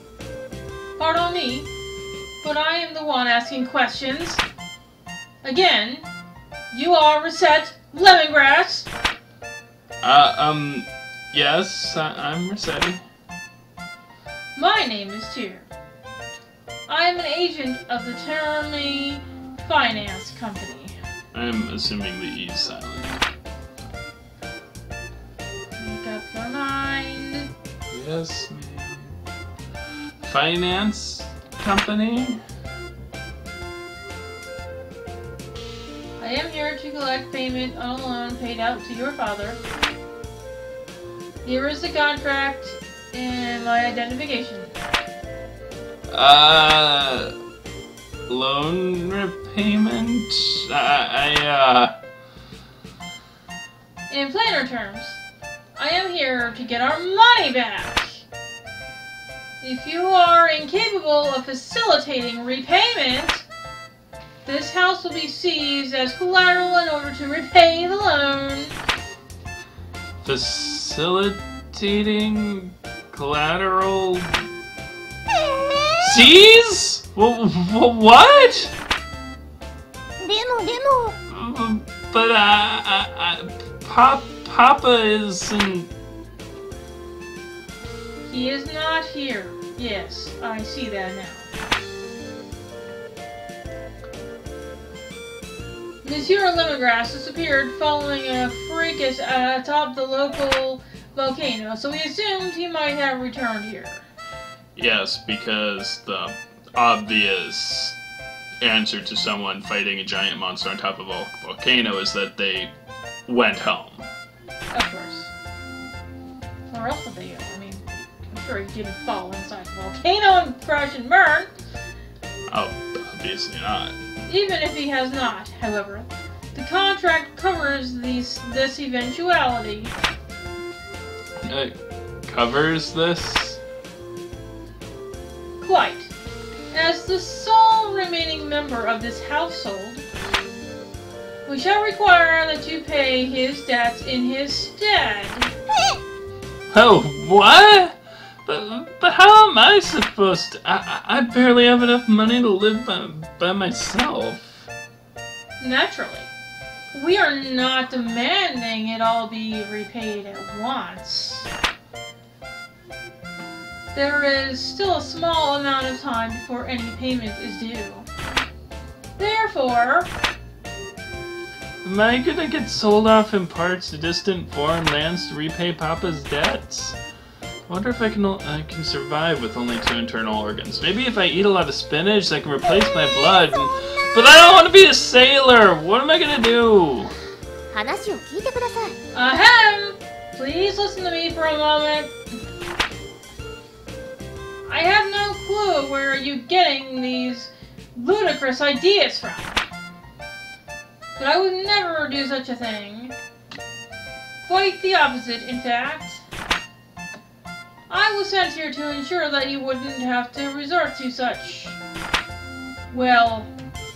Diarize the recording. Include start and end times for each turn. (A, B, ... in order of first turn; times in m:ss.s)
0:01.0-0:01.7 A
0:02.4-0:04.4 A
0:05.4-0:06.1 A
0:06.7-0:08.9 A
0:10.0-0:13.0 B
0:14.5-0:15.7 A
0:16.9-0:21.0 A
0:21.3-0:23.2 B
0:25.8-0:27.5 A
0:27.9-0:29.2 B
0:30.2-0:32.4 B
0:36.2-0:39.6 A
0:41.4-0:44.7 A
0:46.1-0:47.3 B
0:48.3-0:51.9 B
0:54.1-0:55.2 A
0:55.7-0:58.2 A
0:59.6-1:03.5 A
1:04.4-1:08.8 A
1:10.2-1:14.4 B
1:15.3-1:16.2 C
1:16.0-1:18.7 B
1:20.2-1:21.2 C
1:21.3-1:25.9 B
1:28.2-1:31.5 A
1:36.0-1:44.0 A
1:44.8-1:48.0 B
1:48.6-1:52.7 B
1:53.3-1:54.1 B
1:54.7-1:55.3 A
1:56.7-2:01.5 A
2:02.5-2:04.0 B
2:04.2-2:09.9 A
2:11.4-2:13.6 B
2:15.6-2:16.1 A
2:16.7-2:20.0 A
2:21.4-2:25.5 A
2:26.7-2:34.7 B
2:35.6-2:36.3 A
2:36.9-2:41.5 A
2:43.9-2:48.0 A
2:49.2-2:50.1 A
2:51.8-2:57.0 B
2:57.7-3:07.1 B
3:07.7-3:09.0 C
3:09.1-3:12.1 A
3:14.6-3:19.6 A
3:21.2-3:23.2 A
3:24.4-3:26.2 A
3:27.9-3:31.8 A
3:32.9-3:33.5 A